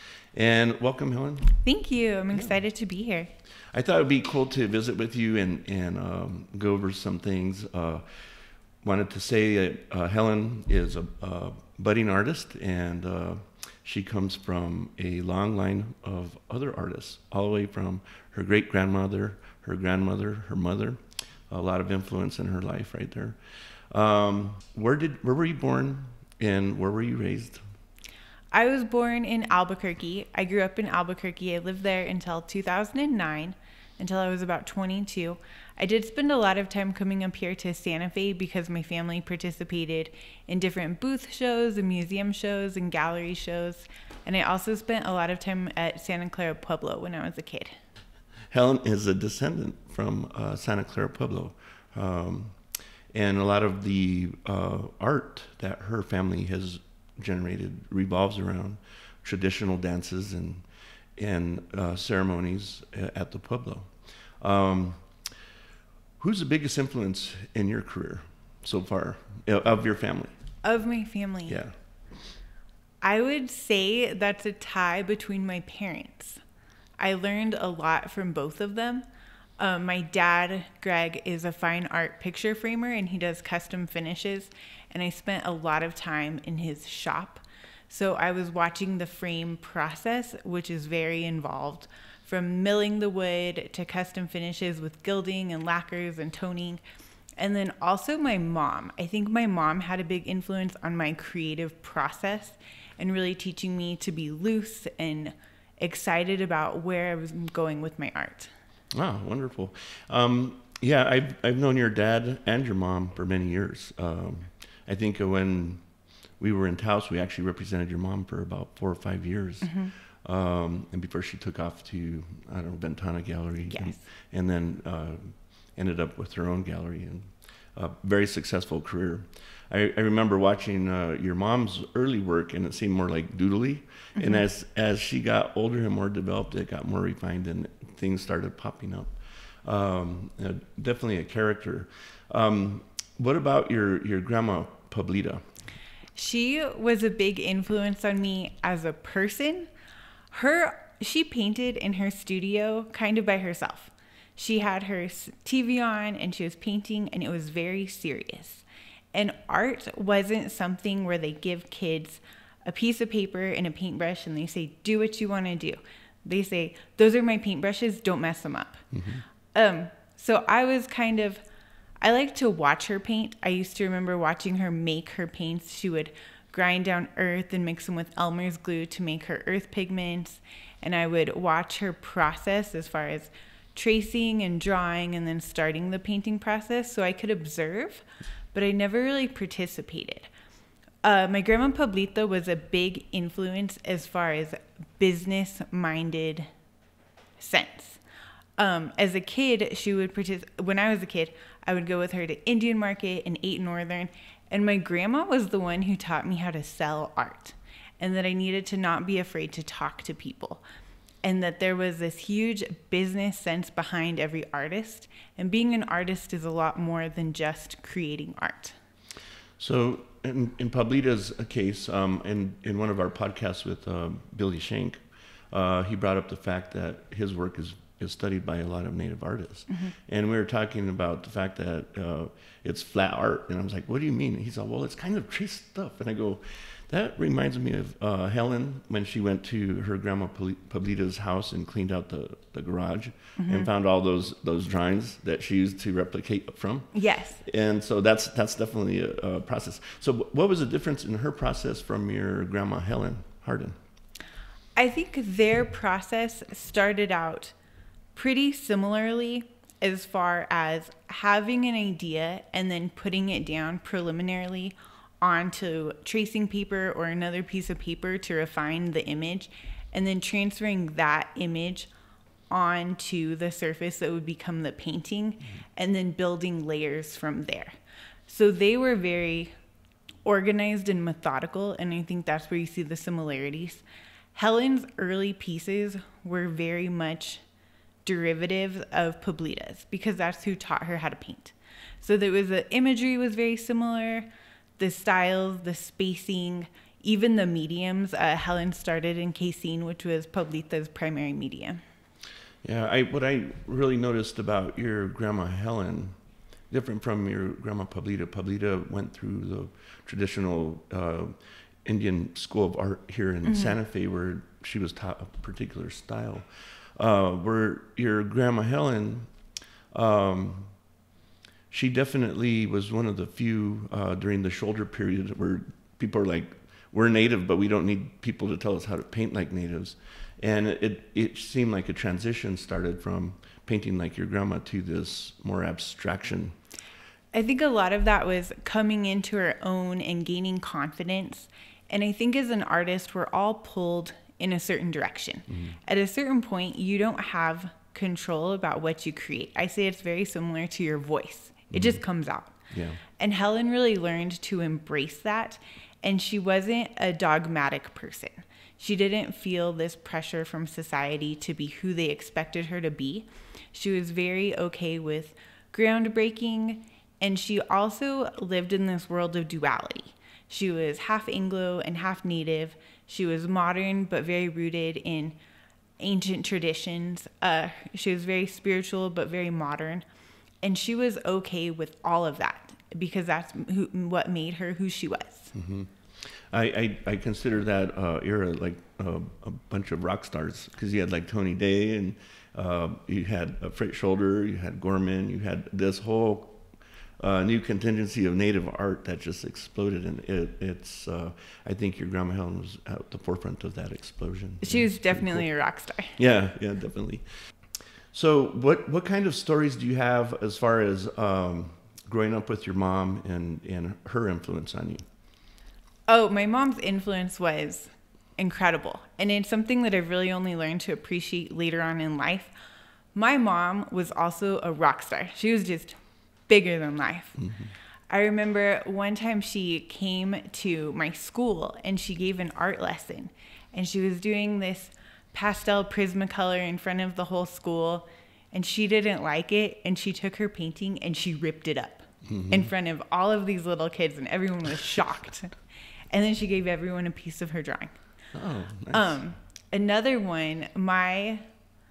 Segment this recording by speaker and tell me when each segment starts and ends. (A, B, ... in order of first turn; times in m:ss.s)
0:00.3-0:01.6 A
0:01.6-0:03.3 B
0:03.7-0:08.0 A
0:08.8-0:21.0 A
0:21.5-0:23.4 A
0:23.9-0:27.6 A
0:28.5-0:47.8 B
0:48.5-0:52.6 A
0:53.1-1:00.6 A
1:01.2-1:05.0 A
1:06.2-1:10.3 A
1:10.6-1:11.6 B
1:11.5-1:11.7 A
1:13.0-1:16.4 B
1:17.0-1:19.0 B
1:19.6-1:36.8 B
1:37.4-1:48.5 B
1:48.9-1:55.8 A
1:56.4-2:19.1 A
1:59.6-1:59.9 B
2:03.7-2:04.0 B
2:14.2-2:14.4 B
2:19.6-2:25.4 A
2:26.2-2:29.7 B
2:30.3-2:48.8 B
2:48.9-2:49.2 A
2:49.5-2:51.4 B
2:52.0-3:10.3 B
3:11.0-3:16.5 B
3:17.4-3:18.0 B
3:18.6-3:30.6 B
3:31.2-3:38.8 B
3:39.6-4:06.9 A
4:03.4-4:03.7 B
4:06.9-4:07.4 B
4:07.4-4:13.8 A
4:14.8-4:17.5 B
4:18.1-4:31.9 B
4:32.5-4:37.8 B
4:38.3-4:39.5 B
4:40.2-4:43.8 B
4:44.3-4:47.4 B
4:48.0-5:01.8 B
5:02.6-5:06.1 A
5:06.7-5:19.3 A
5:13.4-5:13.8 B
5:19.9-5:20.8 A
5:21.7-5:36.6 A
5:37.3-5:52.6 B
5:45.5-5:45.8 A
5:51.7-5:52.0 A
5:52.7-5:53.0 A
5:53.2-6:15.4 B
6:16.0-6:20.0 B
6:20.6-6:25.5 B
6:25.5-6:36.6 A
6:37.2-6:45.5 A
6:44.6-6:46.2 B
6:46.1-6:47.2 A
6:48.1-6:55.0 A
6:56.1-7:02.5 B
7:03.1-7:07.4 B
7:07.4-7:07.7 A
7:08.1-7:25.6 B
7:22.2-7:22.7 A
7:26.1-7:28.0 B
7:28.3-7:29.2 A
7:28.9-7:31.4 B